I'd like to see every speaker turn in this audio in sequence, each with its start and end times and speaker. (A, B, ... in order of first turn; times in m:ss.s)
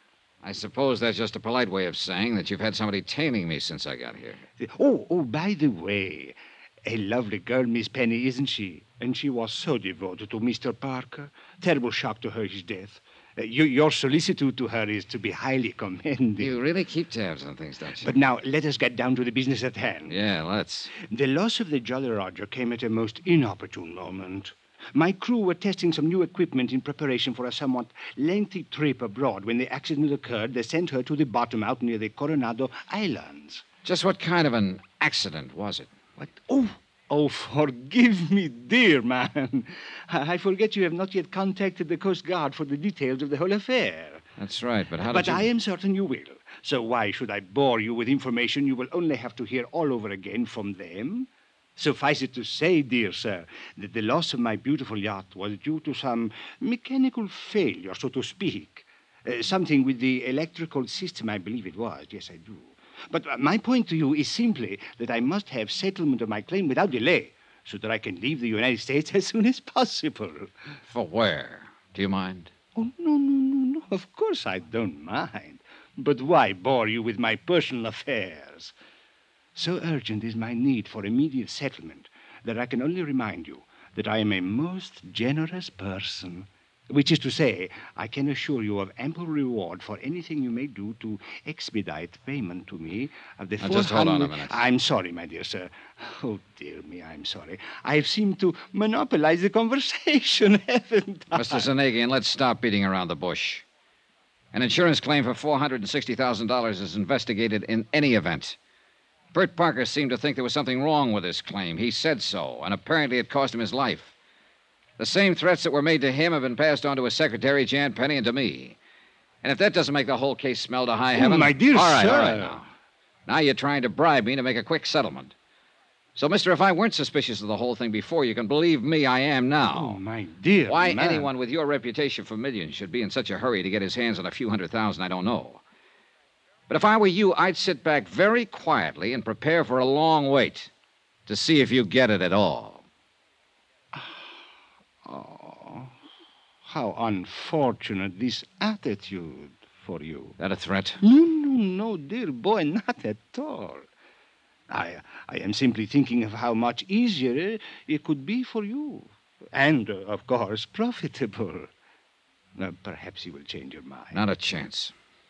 0:00.4-0:04.4 A
0:04.6-0:16.6 B
0:16.4-0:18.2 A
0:17.9-0:20.2 B
0:20.1-0:20.9 A
0:21.0-0:33.6 B
0:33.8-0:35.9 A
0:36.2-0:44.2 B
0:44.4-0:45.5 A
0:45.0-1:10.5 B
1:10.9-1:12.5 A
1:12.7-1:18.7 B
1:19.5-1:41.7 B
1:33.6-1:34.6 A
1:41.3-1:43.6 A
1:44.5-1:48.6 A
1:49.3-1:54.1 A
1:55.0-1:58.8 A
1:59.4-2:02.7 A
2:01.1-2:02.6 B
2:03.3-2:05.3 A
2:06.2-2:10.0 A
2:09.7-2:11.3 B
2:10.6-2:15.6 A
2:16.7-2:20.7 A
2:21.3-2:22.8 A
2:23.9-2:24.3 B
2:25.0-2:25.9 B
2:26.7-2:30.4 B
2:30.4-2:31.0 A
2:31.0-2:33.9 B
2:34.7-2:41.7 B
2:42.6-2:44.2 B
2:44.1-2:44.9 A